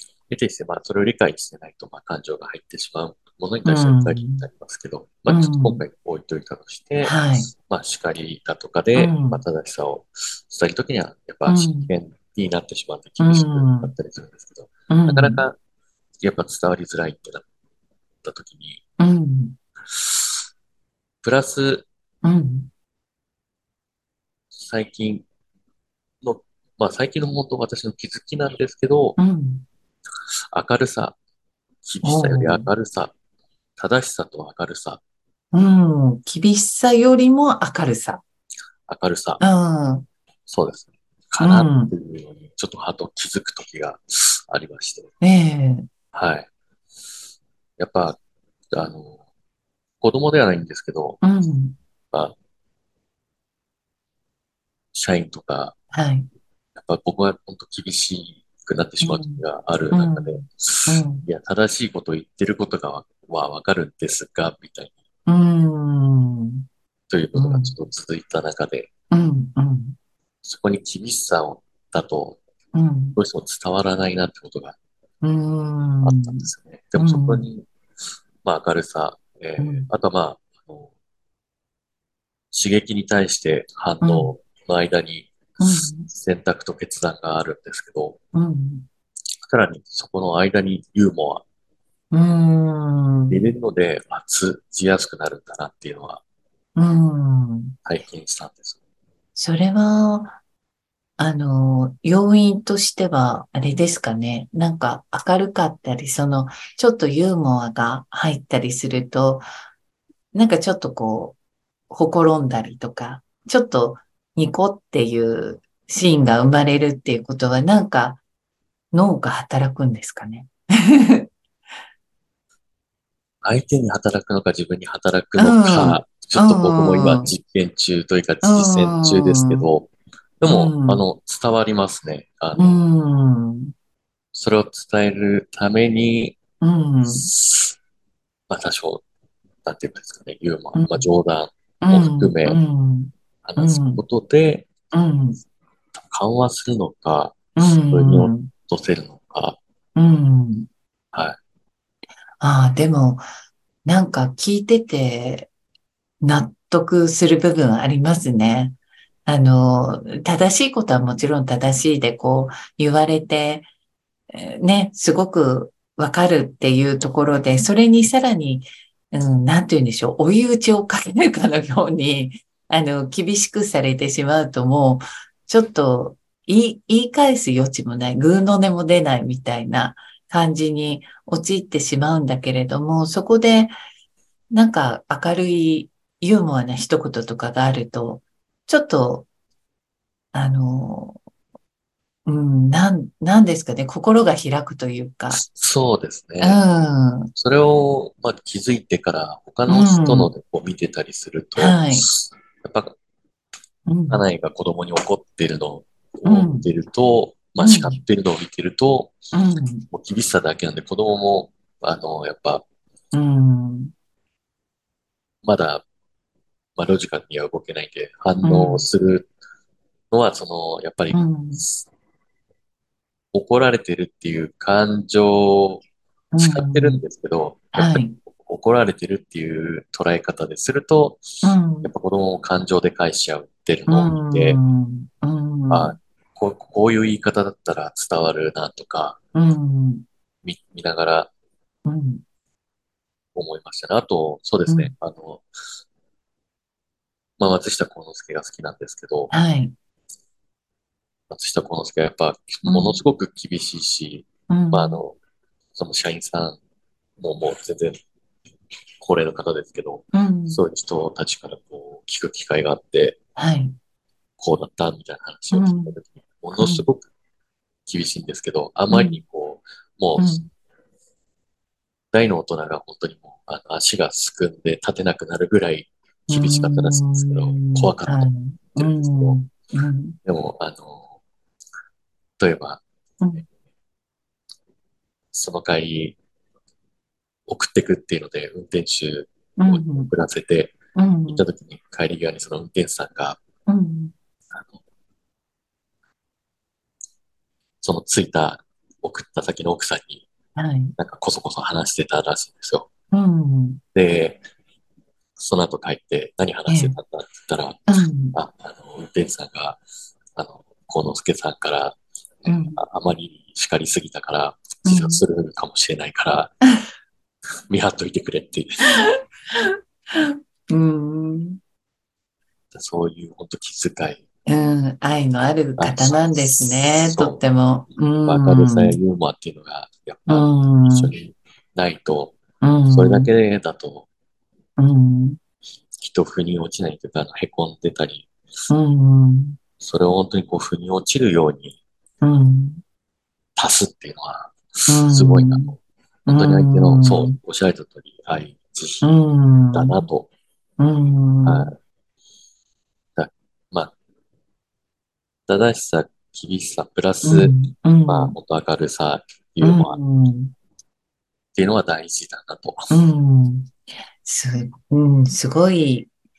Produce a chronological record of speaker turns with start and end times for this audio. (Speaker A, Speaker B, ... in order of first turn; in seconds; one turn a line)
Speaker A: 0.3-15.6
Speaker B: 3.7-4.5
Speaker B: 5.3-5.8
Speaker B: 7.0-7.5
Speaker B: 9.0-9.4
Speaker B: 11.5-11.9
Speaker B: 13.2-13.9
Speaker B: 14.9-15.4
Speaker A: 16.2-17.4
Speaker A: 18.2-18.8
Speaker B: 19.0-19.6
Speaker A: 21.2-21.9
Speaker B: 22.2-22.7
Speaker A: 24.5-25.2
Speaker A: 26.2-29.2
Speaker B: 29.2-29.7
Speaker A: 30.5-31.2
Speaker A: 31.9-33.1
Speaker B: 32.0-32.7
Speaker A: 33.8-35.0
Speaker B: 35.5-38.2
Speaker A: 38.9-39.4
Speaker B: 39.4-40.1
Speaker A: 40.5-45.1
Speaker B: 41.4-41.9
Speaker B: 45.2-45.9
Speaker A: 46.1-46.5
Speaker A: 47.8-48.2
Speaker A: 48.7-49.2
Speaker A: 50.0-51.2
Speaker B: 51.2-51.8
Speaker A: 54.9-55.8
Speaker B: 55.9-56.3
Speaker A: 56.8-65.0
Speaker B: 59.0-61.3
Speaker B: 65.3-66.7
Speaker A: 67.1-68.9
Speaker B: 67.3-67.7
Speaker B: 69.1-70.0
Speaker A: 70.4-72.4
Speaker B: 72.7-73.2
Speaker A: 73.2-74.8
Speaker B: 75.2-77.5
Speaker A: 76.0-77.7
Speaker A: 78.4-80.9
Speaker B: 79.6-79.9
Speaker A: 82.5-85.3
Speaker B: 84.0-84.3
Speaker B: 85.6-86.1
Speaker A: 86.0-88.2
Speaker B: 88.3-88.9
Speaker A: 89.4-91.5
Speaker B: 92.1-93.4
Speaker A: 93.3-96.2
Speaker B: 96.8-97.8
Speaker A: 97.9-98.8
Speaker B: 99.4-100.4
Speaker B: 101.2-109.5
Speaker B: 110.3-111.4
Speaker B: 111.9-118.2
Speaker B: 118.9-121.3
Speaker A: 123.4-129.9
Speaker B: 125.4-127.3
Speaker B: 128.4-129.7
Speaker A: 130.4-132.8
Speaker B: 130.5-131.0
Speaker B: 132.6-133.7
Speaker A: 134.3-136.4
Speaker B: 136.6-137.3
Speaker A: 137.1-137.8
Speaker A: 138.5-139.0
Speaker A: 139.6-142.6
Speaker B: 140.7-141.1
Speaker B: 141.8-144.0
Speaker A: 143.4-144.7
Speaker B: 144.9-145.4
Speaker A: 145.9-149.6
Speaker B: 147.6-148.5
Speaker B: 150.0-150.7
Speaker B: 152.4-153.2
Speaker B: 153.8-155.5
Speaker B: 156.2-163.7
Speaker B: 164.3-183.8
Speaker B: 184.5-189.3
Speaker B: 190.3-191.2
Speaker B: 192.3-195.4
Speaker A: 195.3-196.6
Speaker B: 196.4-197.3
Speaker A: 197.3-202.9
Speaker B: 199.7-200.3
Speaker B: 201.6-202.1
Speaker B: 203.9-204.2
Speaker A: 204.1-209.2
Speaker B: 206.2-206.7
Speaker B: 207.6-208.0
Speaker B: 209.3-209.9
Speaker A: 209.9-212.7
Speaker B: 213.1-213.9
Speaker A: 215.4-215.8
Speaker A: 216.8-219.3
Speaker B: 218.4-218.9
Speaker A: 220.1-221.9
Speaker B: 221.1-221.7
Speaker A: 223.3-225.8
Speaker B: 226.3-227.0
Speaker A: 226.4-231.2
Speaker B: 227.7-228.2
Speaker B: 231.4-231.9
Speaker A: 231.8-234.6
Speaker B: 233.9-236.0
Speaker A: 235.7-239.2
Speaker B: 239.3-240.1
Speaker A: 240.4-241.3
Speaker B: 241.9-242.2
Speaker A: 243.3-245.5
Speaker B: 244.7-244.9
Speaker A: 247.4-249.3
Speaker B: 249.3-249.7
Speaker A: 251.3-255.2
Speaker B: 252.7-253.0
Speaker B: 254.5-255.0
Speaker A: 255.8-256.6
Speaker A: 257.2-258.0
Speaker A: 259.0-263.2
Speaker B: 260.1-260.6
Speaker B: 263.4-263.8
Speaker A: 264.4-267.1
Speaker B: 265.5-265.9
Speaker B: 266.6-266.9
Speaker A: 267.9-270.4
Speaker B: 268.9-269.2
Speaker B: 270.2-270.5
Speaker A: 272.1-279.4
Speaker B: 276.3-280.2
Speaker A: 280.3-281.1
Speaker A: 282.4-282.8
Speaker A: 285.3-286.2
Speaker A: 287.5-290.7
Speaker B: 289.6-290.1
Speaker B: 291.0-291.4
Speaker A: 291.3-293.4
Speaker B: 293.7-294.1
Speaker A: 297.8-300.2
Speaker B: 300.6-300.9
Speaker A: 301.0-302.9
Speaker B: 303.1-303.8
Speaker A: 303.9-304.4
Speaker A: 305.4-307.8
Speaker B: 306.7-307.0
Speaker B: 307.9-308.4
Speaker A: 308.3-309.8
Speaker A: 310.4-316.5
Speaker B: 312.5-312.8
Speaker B: 314.9-315.2
Speaker A: 317.7-319.1
Speaker B: 319.0-321.6
Speaker A: 322.7-324.2
Speaker B: 324.5-329.0
Speaker A: 325.8-327.4
Speaker A: 328.3-332.4
Speaker B: 330.3-331.1
Speaker B: 332.6-333.3
Speaker A: 332.9-334.1
Speaker B: 334.8-335.4
Speaker A: 336.0-338.3
Speaker B: 338.7-339.6
Speaker A: 339.8-341.8
Speaker B: 342.2-342.8
Speaker A: 343.6-349.1
Speaker B: 344.9-345.7
Speaker B: 346.3-347.4
Speaker B: 349.0-350.1
Speaker A: 349.7-350.3
Speaker B: 350.8-351.7
Speaker A: 351.4-351.8
Speaker A: 353.2-353.9
Speaker A: 355.5-357.6
Speaker B: 357.2-358.4
Speaker A: 358.1-360.0
Speaker B: 359.6-360.5
Speaker A: 361.6-362.9
Speaker B: 362.9-363.7
Speaker B: 364.2-366.1